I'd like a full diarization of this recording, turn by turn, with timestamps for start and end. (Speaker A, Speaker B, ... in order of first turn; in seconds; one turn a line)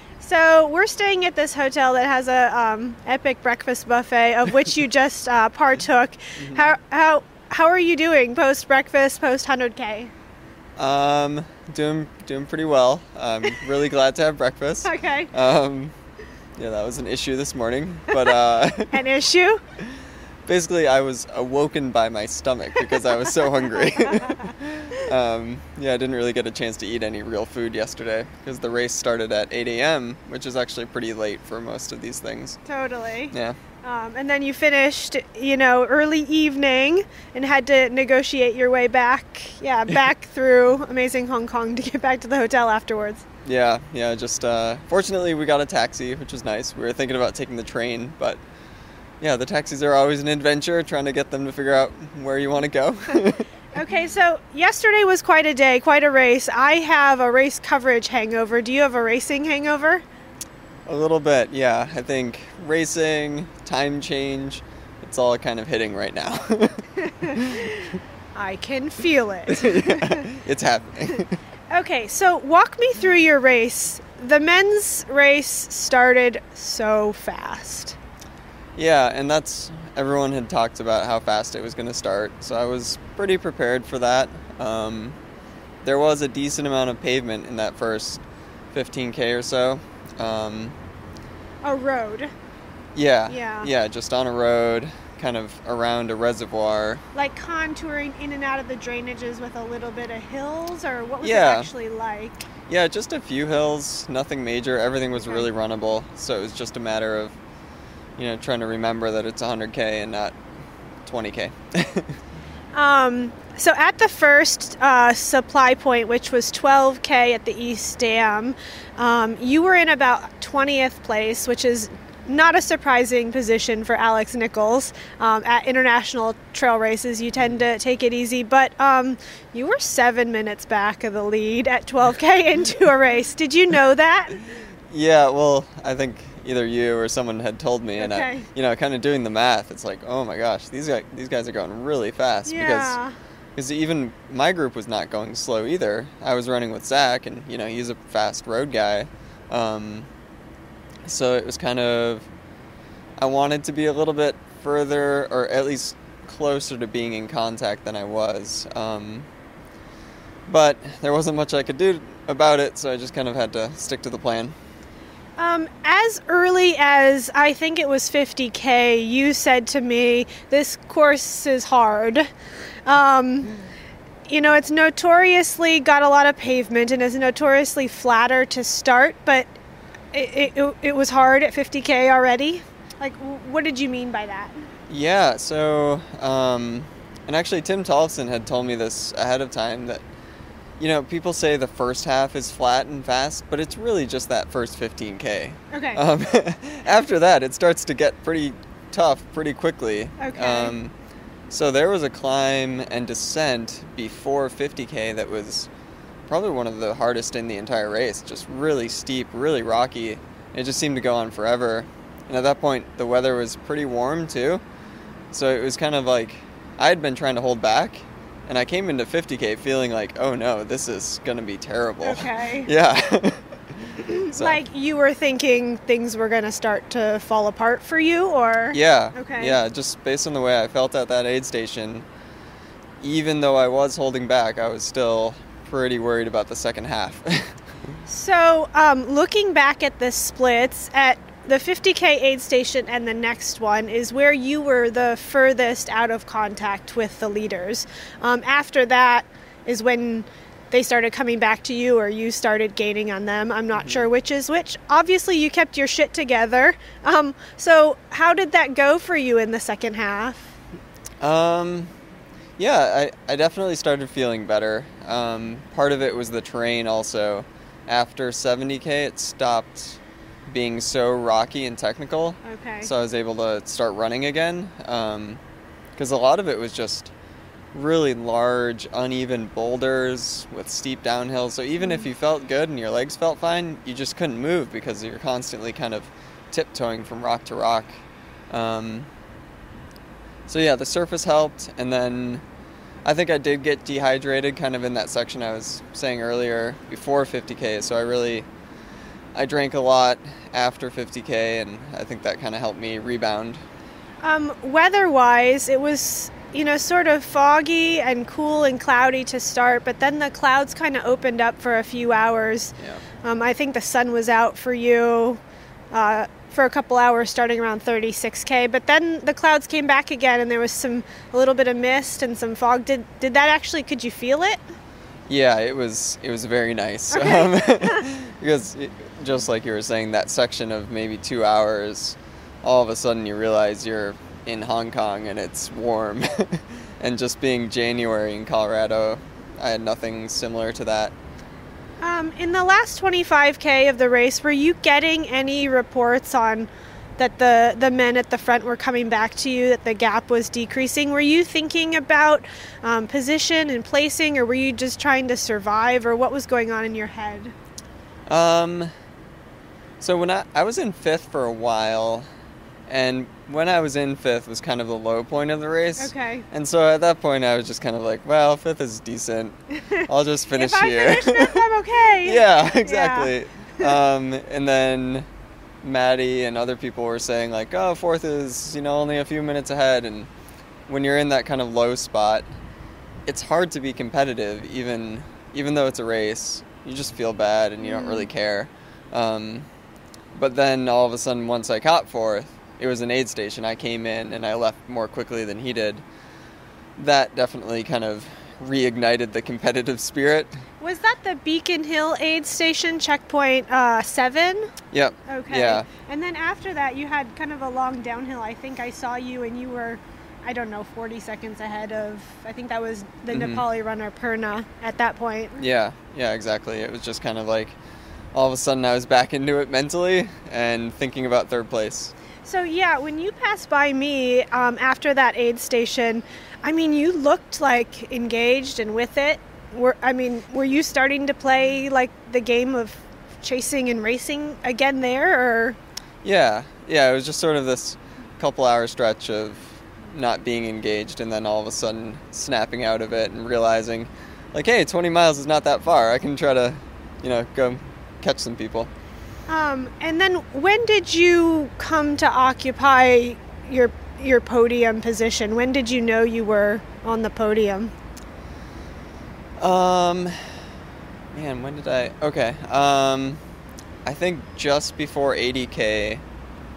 Speaker A: 0.2-10.1
Speaker B: 6.4-6.7
Speaker B: 10.8-15.9
Speaker A: 14.8-15.3
Speaker B: 16.6-19.0
Speaker A: 18.9-19.6
Speaker B: 20.5-32.6
Speaker A: 32.7-43.2
Speaker B: 33.3-33.6
Speaker B: 43.5-48.4
Speaker B: 49.2-53.5
Speaker A: 53.7-60.0
Speaker B: 60.9-67.7
Speaker A: 68.3-70.2
Speaker B: 69.5-71.4
Speaker A: 71.7-78.0
Speaker B: 78.8-85.2
Speaker B: 85.8-88.2
Speaker B: 88.7-90.8
Speaker A: 91.6-92.3
Speaker B: 93.0-97.0
Speaker A: 93.3-93.7
Speaker A: 97.1-102.4
Speaker B: 101.2-101.7
Speaker B: 102.7-107.4
Speaker B: 108.2-110.4
Speaker B: 111.0-112.1
Speaker A: 112.7-134.5
Speaker B: 134.9-143.0
Speaker A: 138.0-138.5
Speaker A: 142.5-143.1
Speaker B: 143.6-150.1
Speaker B: 151.1-152.3
Speaker B: 153.2-159.3
Speaker B: 160.5-164.5
Speaker A: 165.4-172.3
Speaker A: 172.9-173.6
Speaker A: 174.3-179.5
Speaker A: 180.1-184.6
Speaker B: 184.9-190.0
Speaker B: 190.8-200.9
Speaker A: 195.7-196.0
Speaker A: 200.2-200.8
Speaker B: 201.5-205.7
Speaker B: 206.3-214.6
Speaker B: 215.3-224.6
Speaker A: 222.0-222.7
Speaker A: 224.3-229.6
Speaker B: 228.7-232.1
Speaker B: 233.0-237.6
Speaker A: 238.1-260.5
Speaker B: 253.8-254.1
Speaker B: 261.2-261.9
Speaker B: 262.6-275.4
Speaker A: 272.4-272.9
Speaker B: 276.0-277.1
Speaker B: 277.7-288.0
Speaker A: 281.8-282.1
Speaker B: 288.5-289.1
Speaker B: 290.5-292.4
Speaker B: 293.1-298.5
Speaker B: 299.4-303.6
Speaker A: 304.2-315.4
Speaker A: 315.9-324.6
Speaker B: 325.3-341.1
Speaker A: 327.1-328.0
Speaker A: 342.0-357.5
Speaker B: 358.3-358.9
Speaker B: 360.0-362.3
Speaker B: 362.9-371.6
Speaker A: 366.0-366.5
Speaker A: 370.6-373.9
Speaker B: 372.2-375.3
Speaker B: 375.8-380.3
Speaker B: 380.9-382.5
Speaker B: 383.3-389.7
Speaker A: 387.8-388.3
Speaker B: 390.4-396.0
Speaker B: 397.0-400.5
Speaker A: 400.8-404.7
Speaker B: 404.9-405.9
Speaker A: 405.3-415.6
Speaker B: 413.3-413.6
Speaker B: 415.6-417.8
Speaker B: 418.3-422.1
Speaker A: 422.4-435.8
Speaker B: 436.2-448.9
Speaker A: 449.5-457.9
Speaker B: 459.6-460.6
Speaker B: 461.3-463.4
Speaker B: 464.1-466.2